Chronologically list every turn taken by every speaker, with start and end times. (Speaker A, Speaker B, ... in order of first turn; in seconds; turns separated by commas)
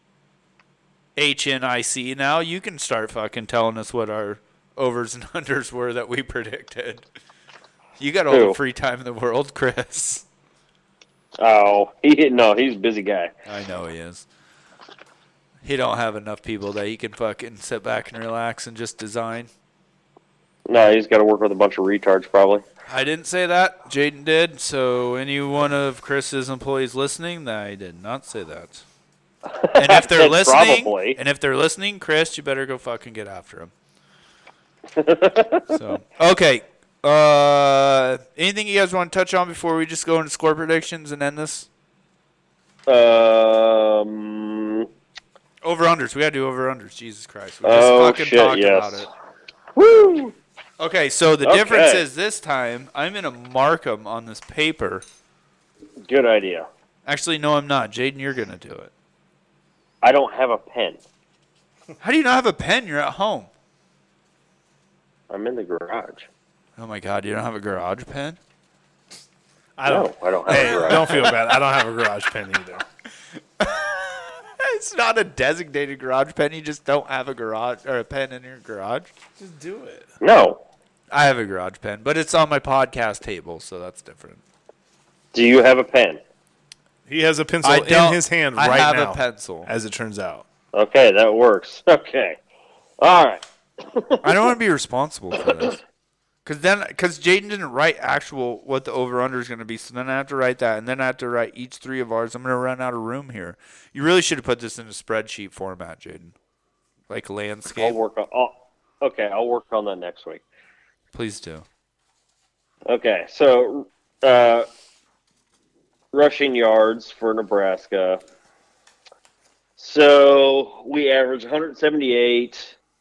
Speaker A: 1.2-7.0, Speaker A: 8.0-10.2, Speaker B: 8.3-8.6, Speaker B: 11.4-13.3, Speaker A: 13.5-14.3, Speaker A: 15.6-19.5, Speaker B: 20.7-22.6, Speaker A: 22.9-28.9, Speaker B: 29.5-31.2, Speaker A: 29.7-33.7, Speaker B: 35.0-35.7, Speaker A: 35.7-41.7, Speaker B: 42.9-44.9, Speaker A: 45.6-49.1, Speaker B: 47.6-49.1, Speaker B: 49.8-50.4, Speaker A: 50.8-55.0, Speaker B: 51.4-52.0, Speaker B: 56.1-56.7, Speaker A: 57.1-58.9, Speaker B: 60.0-61.0, Speaker A: 62.0-63.5, Speaker B: 65.3-66.3, Speaker A: 66.8-68.4, Speaker C: 69.8-72.8, Speaker B: 69.9-71.4, Speaker A: 70.5-71.3, Speaker A: 73.6-79.1, Speaker C: 79.4-80.1, Speaker B: 80.2-80.6, Speaker A: 81.1-84.4, Speaker B: 85.3-86.2, Speaker C: 87.1-90.5, Speaker A: 87.6-89.7, Speaker B: 90.7-92.4, Speaker B: 93.0-94.5, Speaker A: 94.2-95.8, Speaker A: 96.5-106.3, Speaker A: 107.1-108.0, Speaker B: 107.8-110.4, Speaker A: 111.1-111.7, Speaker B: 112.9-114.7, Speaker B: 116.1-118.2, Speaker B: 119.8-122.8